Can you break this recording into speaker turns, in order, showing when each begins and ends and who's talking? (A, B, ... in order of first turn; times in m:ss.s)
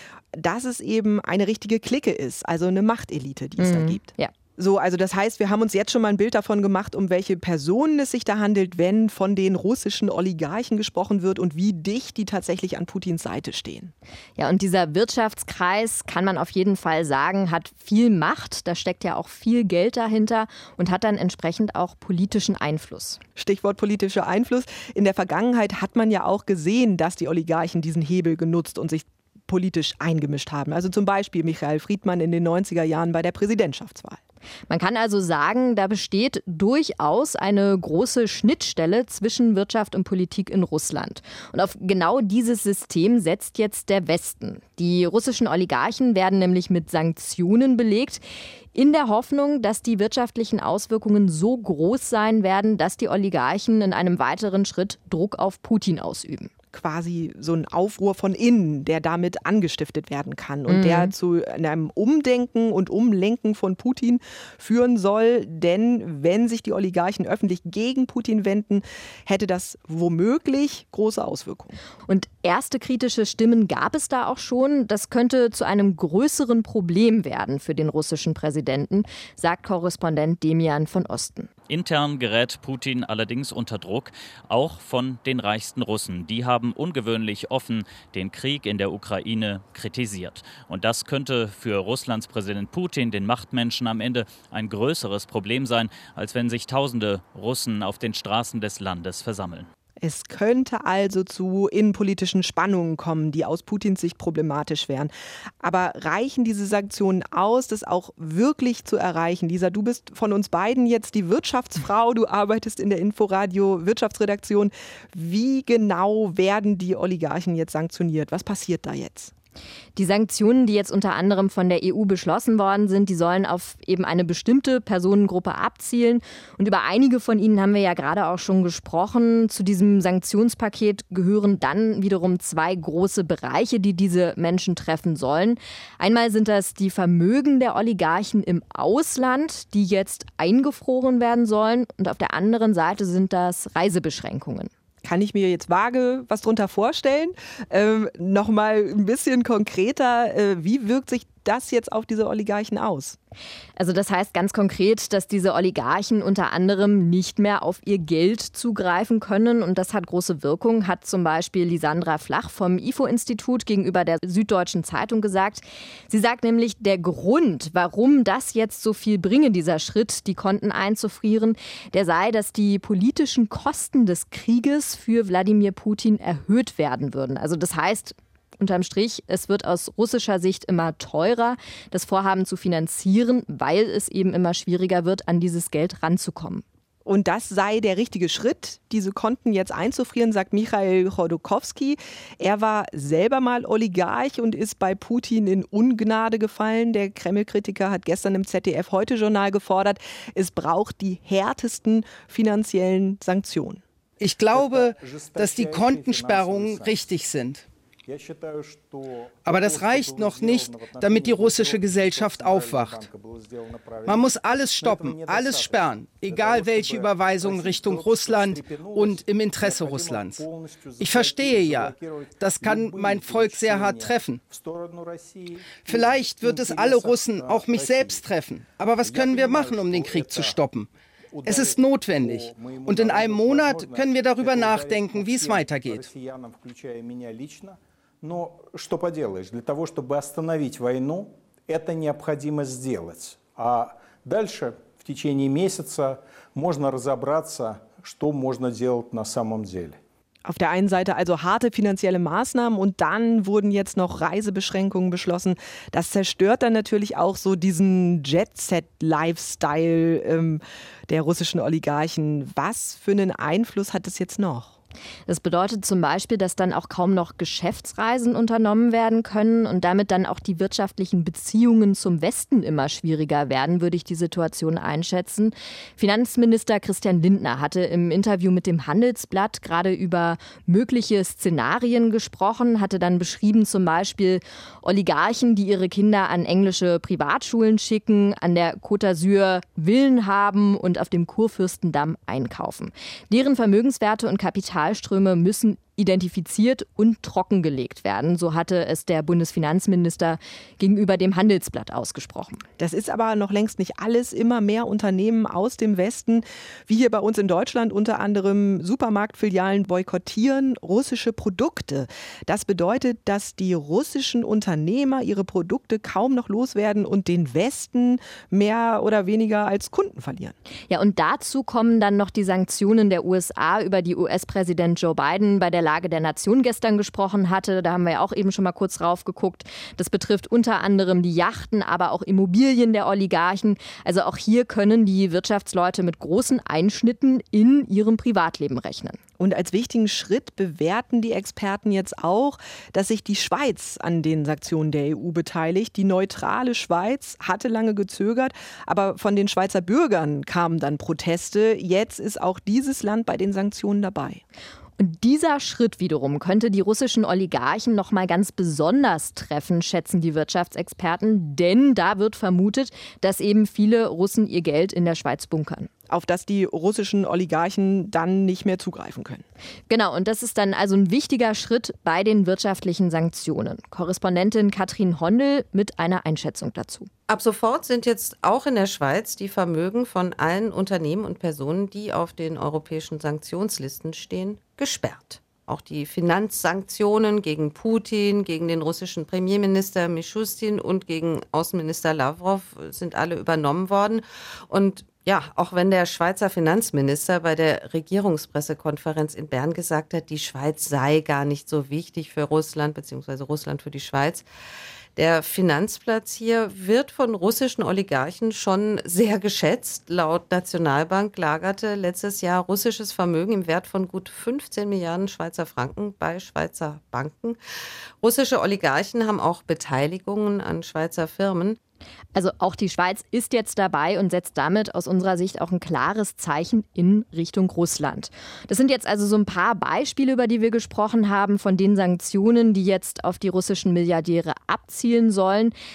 0:00.3-0:13.9 A
0:03.6-0:04.3 B
0:14.4-0:23.2 B
0:23.4-0:34.2 A
0:34.7-0:48.2 B
0:48.7-0:56.5 B
0:56.7-1:11.8 A
1:00.7-1:01.1 B
1:12.1-1:21.5 B
1:21.7-1:39.7 C
1:40.0-1:59.3 A
2:00.0-2:24.7 B
2:25.0-2:33.2 A
2:33.8-3:06.6 B
3:07.0-3:23.8 A
3:24.2-3:27.6 D
3:24.5-3:27.0 E
3:28.0-3:48.3 E
3:29.5-3:33.0 D
3:34.0-3:40.4 D
3:41.0-3:44.4 D
3:45.8-3:50.9 D
3:49.0-3:50.6 E
3:51.3-4:10.0 E
3:51.4-3:56.0 D
4:10.4-4:24.8 A
4:25.3-5:02.6 B
5:02.8-5:20.5 A
5:20.9-5:39.2 B
5:39.4-5:54.4 A
5:55.0-6:05.9 B
6:06.1-6:09.4 A
6:09.9-6:17.1 B
6:17.3-6:44.4 F
6:45.2-6:57.6 F
6:58.2-7:01.8 F
7:02.3-7:15.7 B